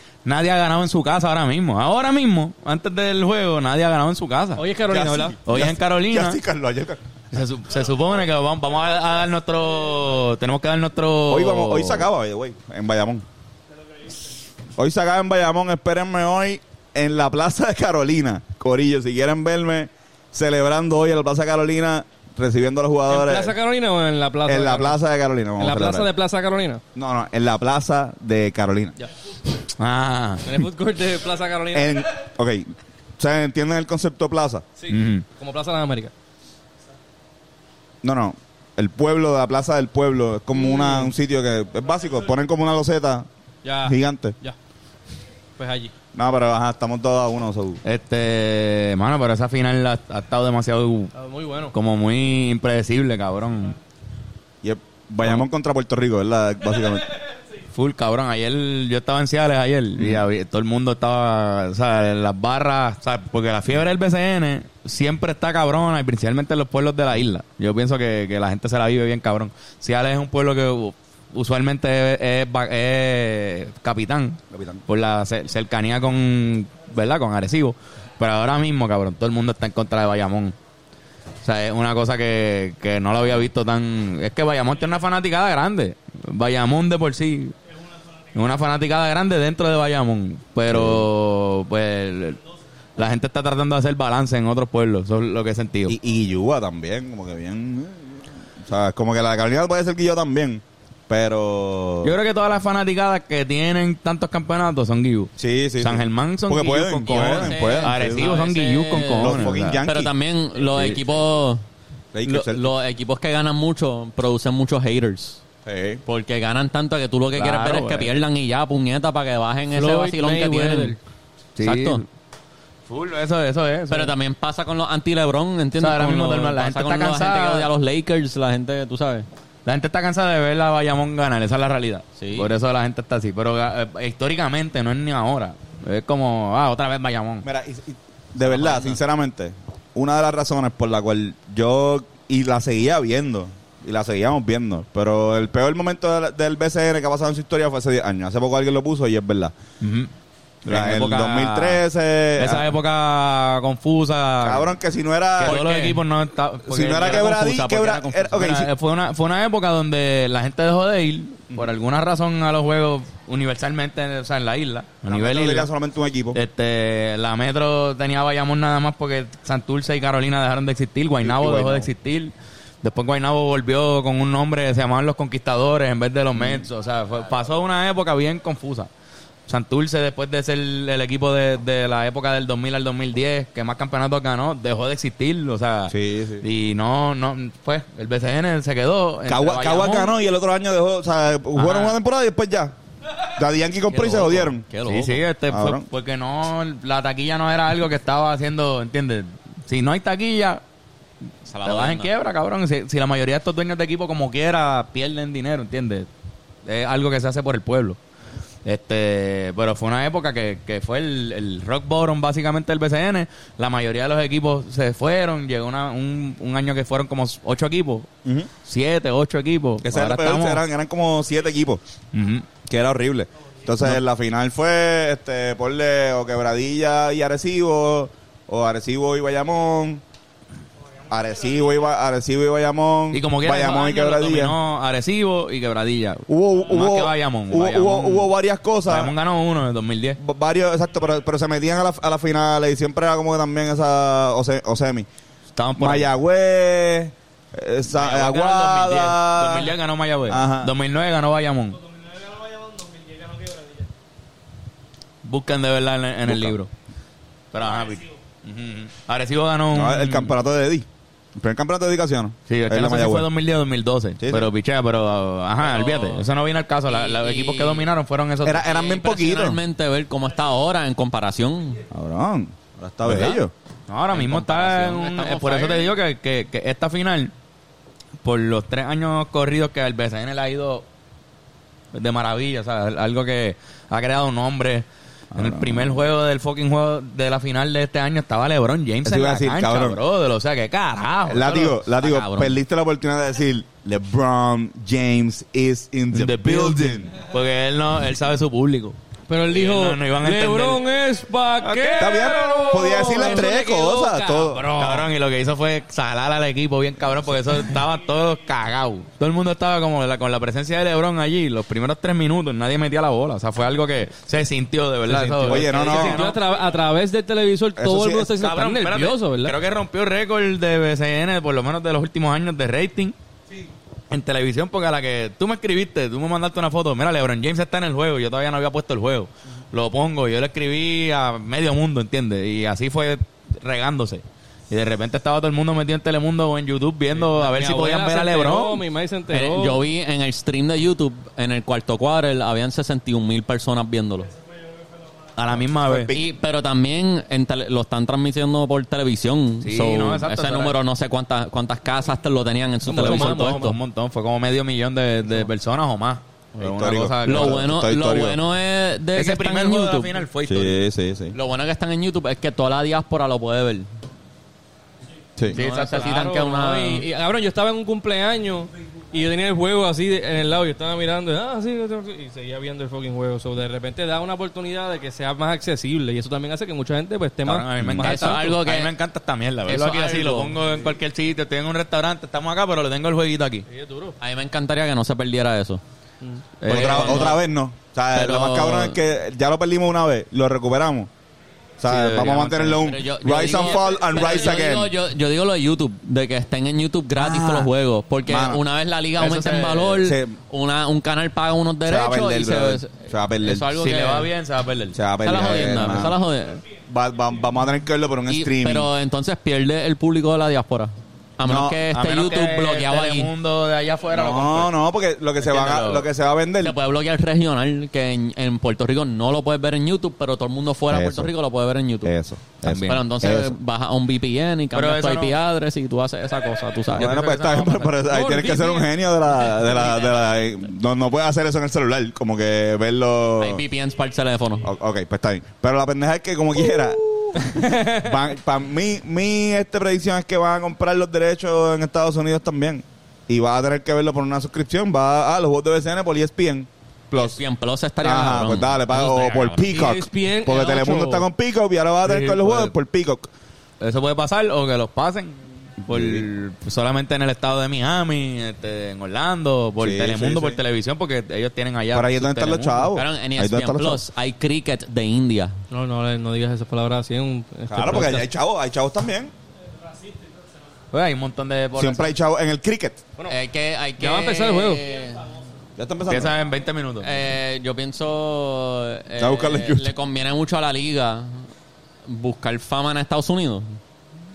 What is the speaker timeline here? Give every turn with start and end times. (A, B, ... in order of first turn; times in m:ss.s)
0:00.2-0:04.6 A
0:04.6-0:05.4 B
0:04.9-0:07.0 C
0:05.4-0:06.4 A
0:07.3-0:12.1 A
0:11.3-0:13.2 C
0:14.8-0:23.5 C
0:23.1-0:25.0 B
0:24.4-0:26.1 C
0:25.6-0:26.8 B
0:26.9-0:29.0 C
0:29.8-0:30.4 A
0:30.4-0:32.0 B
0:31.7-0:34.6 C
0:34.8-0:36.1 B
0:34.9-0:35.2 A
0:38.0-0:43.3 C
0:40.6-0:41.1 B
0:43.6-0:44.6 B
0:43.8-0:44.4 C
0:45.6-0:45.9 B
0:46.1-0:47.8 C
0:47.8-0:51.1 A
0:51.1-0:51.7 B
0:51.7-0:53.8 A
0:54.6-0:57.1 C
0:57.7-1:20.6 A
1:00.0-1:00.2 C
1:14.5-1:14.8 C
1:21.4-1:27.5 A
1:28.3-1:32.4 A
1:30.7-1:31.1 C
1:33.0-1:36.0 A
1:35.9-1:42.1 C
1:42.0-1:49.8 A
1:45.4-1:48.4 C
1:47.1-1:51.6 D
1:49.1-1:50.1 C
1:52.1-1:52.7 C
1:52.2-1:55.4 D
1:55.6-1:56.0 C
1:56.0-2:01.0 D
1:57.4-1:58.1 A
1:59.7-2:01.0 B
2:01.6-2:02.1 A
2:01.6-2:02.0 D
2:02.9-2:04.1 A
2:03.9-2:09.2 D
2:05.8-2:07.7 A
2:09.6-2:17.4 A
2:12.2-2:12.5 D
2:17.4-2:29.5 C
2:18.5-2:19.0 D
2:29.8-2:30.1 A
2:30.6-2:31.8 A
2:30.6-2:32.7 C
2:32.4-2:34.7 A
2:34.4-2:35.6 C
2:35.4-2:37.4 A
2:35.4-2:36.0 D
2:36.6-2:38.7 C
2:36.9-2:38.4 D
2:38.3-2:45.7 A
2:45.1-2:46.4 C
2:46.3-2:58.9 A
2:51.2-2:51.9 C
2:56.4-2:56.6 C
2:59.5-3:10.1 A
3:05.9-3:06.4 C
3:09.2-3:12.8 C
3:11.6-3:12.0 A
3:13.3-3:14.6 C
3:13.9-3:15.2 D
3:14.8-3:20.6 A
3:15.5-3:15.8 C
3:21.4-3:22.1 D
3:21.6-3:26.1 A
3:26.6-3:28.0 A
3:28.6-3:38.1 A
3:38.6-3:40.6 A
3:39.8-3:41.8 C
3:42.1-3:42.5 A
3:42.6-3:50.0 C
3:51.1-3:54.6 C
3:53.1-3:58.3 A
3:56.3-3:59.1 C
3:58.9-4:00.2 A
4:00.2-4:05.1 C
4:05.5-4:06.1 A
4:05.8-4:09.8 C
4:07.9-4:11.8 A
4:10.3-4:10.7 C
4:15.2-4:16.7 A
4:16.2-4:16.6 C
4:17.5-4:20.3 A
4:19.7-4:23.3 C
4:22.5-4:29.0 A
4:24.2-4:24.5 C
4:25.6-4:26.3 D
4:26.8-4:27.9 D
4:28.4-4:29.6 C
4:28.8-4:31.8 D
4:31.9-4:33.5 C
4:33.9-4:37.3 A
4:34.1-4:35.9 D
4:38.2-4:40.8 A
4:41.9-4:51.8 A
4:45.3-4:46.1 C
4:49.0-4:50.0 C
4:51.3-4:57.1 C
4:51.9-4:52.5 D
4:56.1-4:59.0 A
4:59.3-5:05.1 B
4:59.5-5:00.8 A
5:01.6-5:03.3 A
5:02.0-5:04.7 C
5:04.7-5:16.4 A
5:15.1-5:19.6 B
5:15.4-5:16.3 C
5:17.8-5:18.3 C
5:18.3-5:23.1 A
5:24.1-5:38.8 A
5:37.1-5:39.8 B
5:39.3-5:44.3 D
5:45.4-5:46.1 A
5:45.8-5:46.3 C
5:46.1-5:53.8 D
5:49.6-5:50.8 A
5:52.8-5:53.8 B
5:52.9-5:57.7 A
5:56.6-5:58.4 C
5:57.2-6:00.1 D
5:59.1-6:00.8 A
6:00.4-6:01.4 C
6:01.3-6:03.9 D
6:05.5-6:07.0 D
6:05.5-6:06.3 A
6:05.9-6:18.4 B
6:17.4-6:23.6 A
6:17.8-6:18.1 C
6:18.0-6:18.9 D
6:19.7-6:20.6 D
6:23.7-6:24.2 B
6:24.2-6:25.8 D
6:26.6-6:27.4 A
6:26.6-6:27.4 D
6:26.7-6:31.1 C
6:28.1-6:29.0 D
6:31.8-6:34.9 C
6:31.9-6:32.7 A
6:32.2-6:44.3 D
6:37.2-6:37.7 C
6:38.2-6:38.6 C
6:39.2-6:40.1 A
6:40.0-6:40.4 C
6:41.8-6:43.7 C
6:43.8-6:45.0 A
6:44.9-6:46.2 C
6:45.2-6:46.6 D
6:46.9-6:48.9 C
6:48.3-6:53.3 D
6:51.4-6:51.8 C
6:51.9-6:54.7 A
6:54.1-6:56.8 C
6:55.4-6:56.1 A
6:56.6-7:02.1 D
7:00.9-7:01.3 C
7:02.0-7:03.5 C
7:02.6-7:03.1 A
7:02.6-7:07.1 D
7:04.7-7:05.4 A
7:06.9-7:13.6 C
7:07.0-7:08.4 A
7:08.1-7:08.9 B
7:09.6-7:10.4 D
7:13.4-7:14.7 D
7:14.6-7:27.4 C
7:17.4-7:18.1 B
7:27.1-7:29.9 D
7:28.0-7:33.3 C
7:29.7-7:31.3 B
7:32.0-7:32.7 A
7:33.8-7:42.9 A
7:35.8-7:36.3 C
7:39.8-7:40.6 C
7:41.9-7:44.0 C
7:42.9-7:45.6 D
7:45.7-7:48.3 B
7:47.7-7:49.3 C
7:50.9-7:52.1 A
7:51.8-7:53.0 C
7:53.3-7:55.2 D
7:54.0-7:54.8 B
7:55.8-7:56.4 C
7:56.1-7:57.1 A
7:57.0-8:01.4 D
7:59.2-7:59.9 C
8:02.1-8:03.8 D